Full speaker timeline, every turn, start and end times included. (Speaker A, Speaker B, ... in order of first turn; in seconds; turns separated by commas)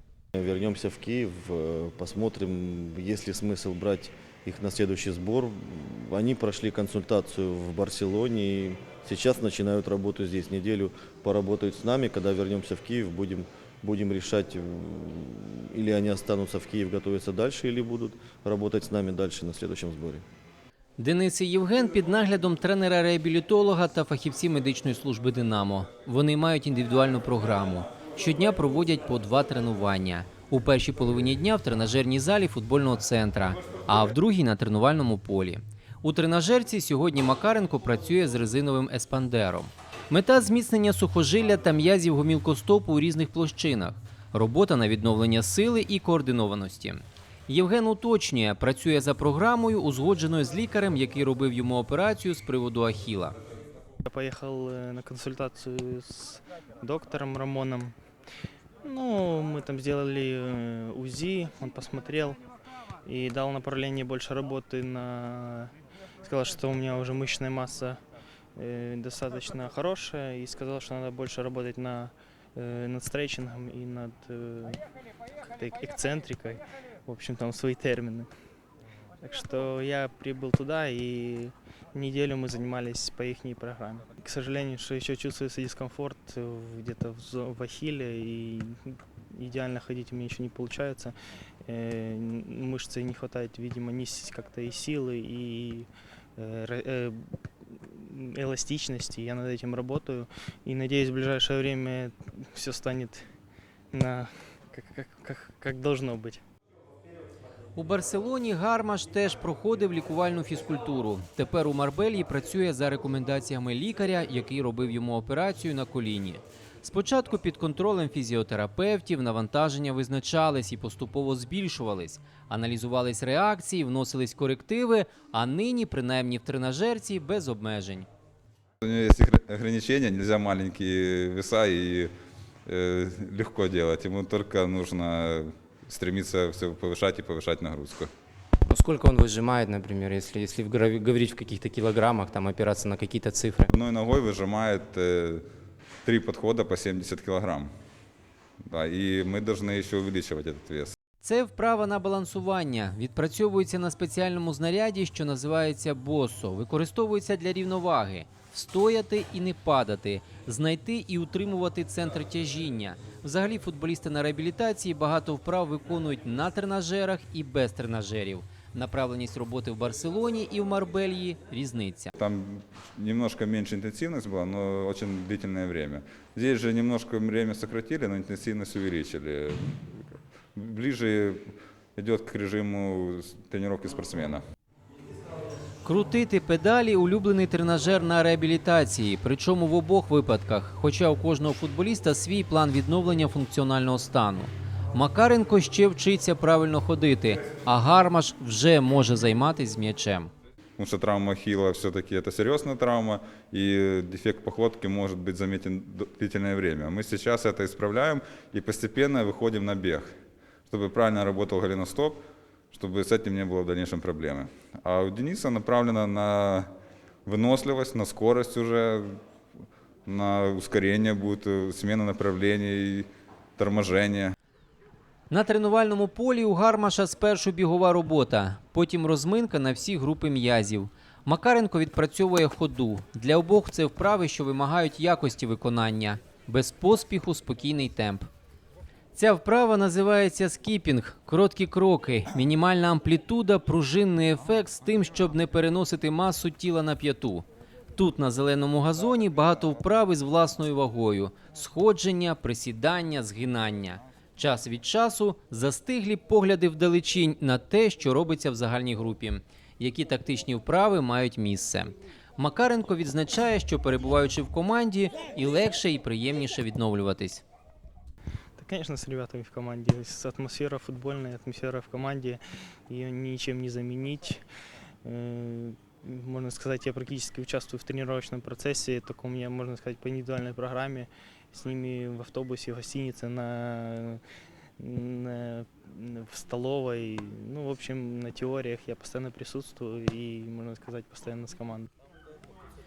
Speaker A: 0.3-20.2, Speaker B: 21.0-53.4, Speaker C: 54.0-57.9, Speaker C: 58.8-62.4, Speaker C: 63.0-65.7, Speaker C: 66.2-68.0, Speaker C: 68.5-74.8, Speaker C: 75.4-78.3, Speaker C: 79.2-91.1, Speaker C: 91.7-103.2, Speaker C: 103.9-106.4, Speaker B: 107.8-128.1, Speaker D: 128.8-132.1, Speaker D: 132.7-138.1, Speaker E: 138.7-143.7, Speaker D: 143.7-145.4, Speaker D: 146.0-147.7, Speaker D: 148.7-150.9, Speaker B: 151.2-172.1, Speaker D: 172.1-180.0, Speaker D: 180.6-181.4, Speaker D: 182.0-184.4, Speaker B: 185.8-200.3, Speaker D: 200.8-210.1, Speaker D: 210.7-212.2, Speaker D: 212.7-216.7, Speaker D: 217.2-219.2, Speaker D: 220.1-223.1, Speaker D: 223.6-224.3, Speaker B: 225.3-238.3, Speaker B: 239.1-267.4, Speaker C: 268.6-274.4, Speaker C: 275.0-284.2, Speaker C: 284.8-291.9